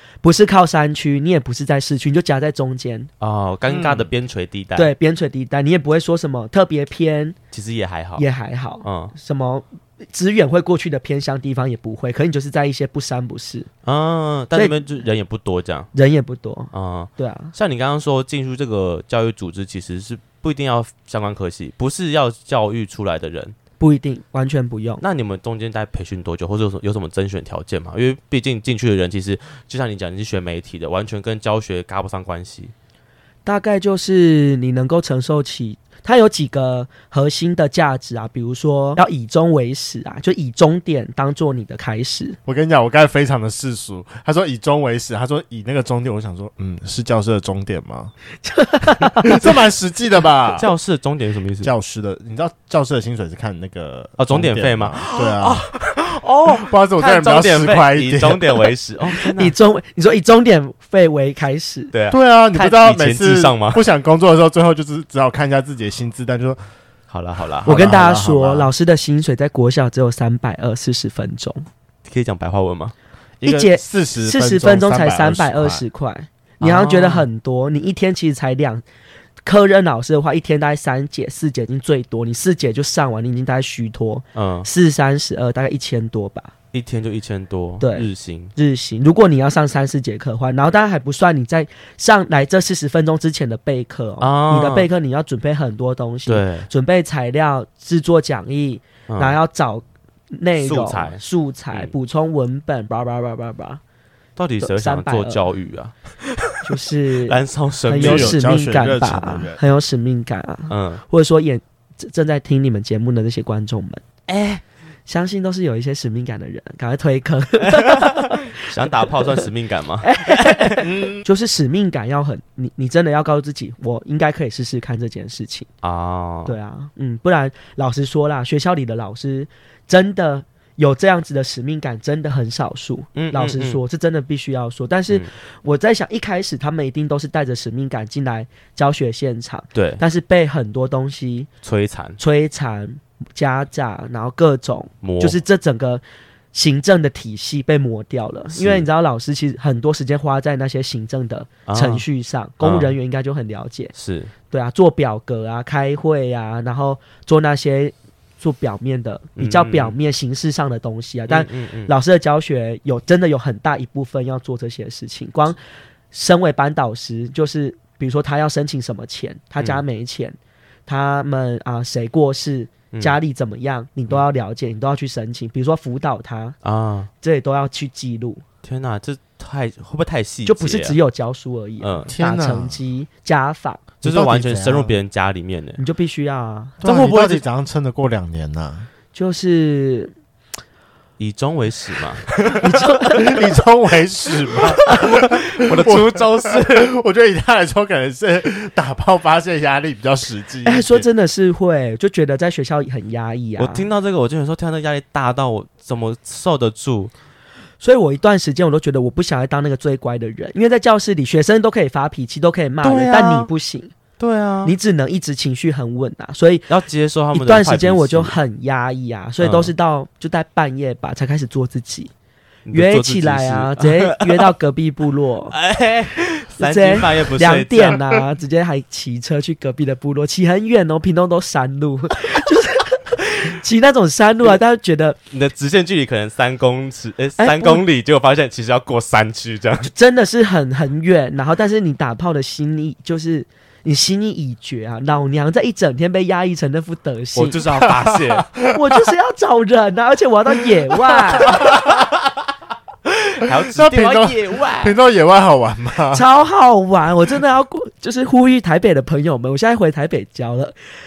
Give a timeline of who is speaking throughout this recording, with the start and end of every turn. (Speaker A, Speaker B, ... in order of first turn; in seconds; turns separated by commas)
Speaker A: 0.2-3.1, Speaker B: 3.2-4.9, Speaker C: 3.7-4.1, Speaker A: 4.7-7.3, Speaker B: 7.5-8.2, Speaker A: 8.2-13.7, Speaker B: 8.8-9.1, Speaker B: 13.8-15.9, Speaker A: 14.5-14.8, Speaker A: 15.9-17.5, Speaker B: 16.7-23.6, Speaker A: 23.8-25.0, Speaker B: 25.0-32.7, Speaker A: 33.4-42.4, Speaker C: 42.5-48.1, Speaker A: 48.4-49.5, Speaker C: 49.2-50.7, Speaker B: 50.5-51.7, Speaker C: 51.6-55.7, Speaker B: 54.2-59.5, Speaker C: 56.5-58.7, Speaker A: 59.3-61.9, Speaker B: 61.9-63.8, Speaker C: 62.1-66.6, Speaker B: 67.1-67.8, Speaker C: 67.6-68.7, Speaker A: 67.7-71.6, Speaker B: 72.0-72.9, Speaker C: 73.4-75.8, Speaker A: 73.4-78.8, Speaker B: 76.6-77.3, Speaker A: 79.4-86.5, Speaker B: 84.3-84.7, Speaker B: 86.7-88.5, Speaker A: 87.8-103.8, Speaker B: 94.2-94.9, Speaker B: 96.3-96.7, Speaker B: 99.1-99.4, Speaker B: 100.6-101.9, Speaker B: 104.4-106.5, Speaker A: 104.6-105.4, Speaker A: 106.6-114.0, Speaker B: 107.2-108.4, Speaker C: 107.9-109.6, Speaker B: 110.7-111.0, Speaker B: 114.3-114.6, Speaker A: 115.1-119.4, Speaker B: 117.7-120.8, Speaker A: 120.0-125.7, Speaker C: 120.8-121.2, Speaker B: 125.8-126.5, Speaker A: 126.5-141.5, Speaker B: 133.2-133.8, Speaker B: 139.7-140.0, Speaker B: 141.6-142.2, Speaker A: 142.2-153.9, Speaker B: 145.0-145.4, Speaker B: 148.5-148.8, Speaker B: 151.7-152.0, Speaker B: 152.6-152.9, Speaker B: 153.9-154.3, Speaker A: 154.5-165.6, Speaker B: 159.4-159.9, Speaker B: 161.3-161.9, Speaker A: 166.1-176.6, Speaker B: 172.9-173.2, Speaker B: 176.6-177.1, Speaker A: 177.2-178.4, Speaker B: 178.6-181.0, Speaker A: 180.4-183.8, Speaker B: 181.8-182.1, Speaker C: 182.1-182.8, Speaker C: 184.0-184.9, Speaker B: 184.0-185.8, Speaker A: 185.8-186.8, Speaker C: 186.8-188.9, Speaker B: 186.8-187.4, Speaker A: 189.1-190.1, Speaker B: 191.2-192.3, Speaker C: 192.5-201.1, Speaker A: 192.6-193.5, Speaker B: 194.7-196.9, Speaker A: 200.6-203.9, Speaker B: 203.6-207.1, Speaker A: 207.8-213.9, Speaker B: 212.8-213.5, Speaker B: 214.2-214.7, Speaker A: 214.6-216.7, Speaker B: 216.7-218.3, Speaker A: 217.3-222.1, Speaker B: 219.4-219.7, Speaker B: 222.7-224.5, Speaker A: 222.7-225.5, Speaker B: 225.5-228.2, Speaker A: 226.6-235.2, Speaker B: 235.3-239.9, Speaker A: 237.4-237.8, Speaker A: 239.8-247.6, Speaker B: 247.3-248.4, Speaker C: 247.8-249.1, Speaker A: 248.7-251.7, Speaker C: 251.5-251.9, Speaker B: 253.4-255.0, Speaker C: 253.5-256.2, Speaker A: 256.1-260.7